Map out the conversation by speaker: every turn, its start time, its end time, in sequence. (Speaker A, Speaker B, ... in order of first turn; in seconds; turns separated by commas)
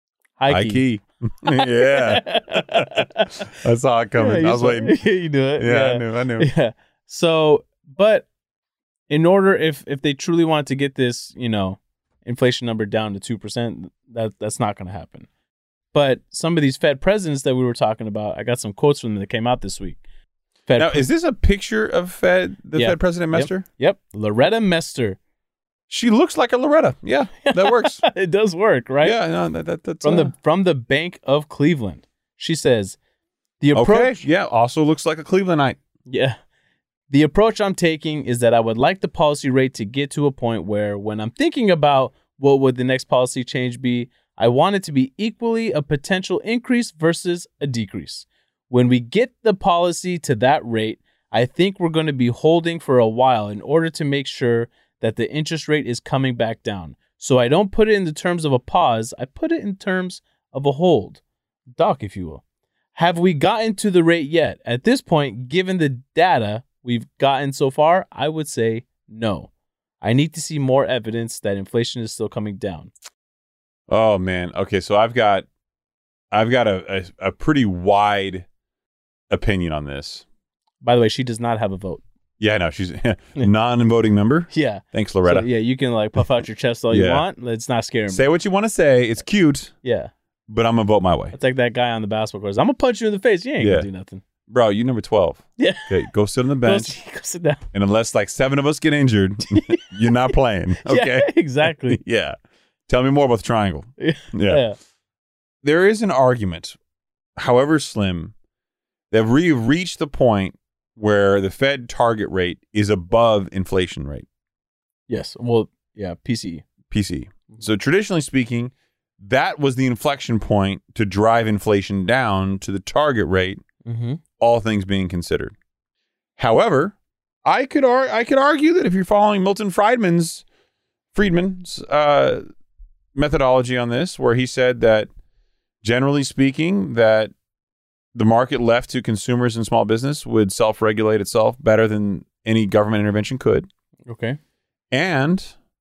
Speaker A: 0.4-0.8, Speaker B: 0.5-5.0, Speaker A: 1.5-3.5, Speaker A: 4.2-8.2, Speaker B: 5.6-6.5, Speaker A: 9.1-15.3, Speaker A: 15.9-20.0, Speaker A: 20.7-21.1, Speaker B: 20.8-23.6, Speaker A: 22.8-25.2, Speaker B: 25.9-28.0, Speaker A: 27.4-29.2, Speaker B: 29.0-30.3, Speaker A: 30.0-33.0, Speaker A: 33.6-34.2, Speaker B: 33.7-35.8, Speaker A: 36.1-36.4, Speaker A: 37.1-61.2, Speaker A: 61.7-62.4, Speaker A: 62.9-69.5, Speaker A: 70.0-72.9, Speaker B: 73.9-75.5, Speaker B: 76.3-78.5, Speaker B: 79.3-80.2, Speaker A: 80.8-82.0, Speaker B: 82.4-85.5, Speaker A: 84.5-88.2, Speaker B: 86.9-87.2, Speaker B: 88.1-89.7, Speaker A: 89.8-90.1, Speaker B: 90.5-91.3, Speaker A: 91.3-94.2, Speaker B: 93.6-93.9, Speaker B: 94.5-96.9, Speaker A: 95.6-96.1, Speaker A: 96.6-97.6, Speaker B: 97.7-102.4, Speaker A: 99.5-100.3, Speaker A: 100.8-102.0, Speaker B: 102.9-104.6, Speaker A: 104.0-104.8, Speaker B: 105.6-106.8, Speaker B: 107.4-108.3, Speaker B: 109.1-114.3, Speaker A: 115.1-116.6, Speaker B: 116.9-123.6, Speaker A: 123.8-124.2, Speaker B: 124.4-125.5, Speaker B: 126.4-130.4, Speaker B: 131.1-132.4, Speaker B: 133.1-135.1, Speaker B: 135.8-137.3, Speaker B: 138.1-143.7, Speaker A: 144.1-144.4, Speaker B: 144.9-145.5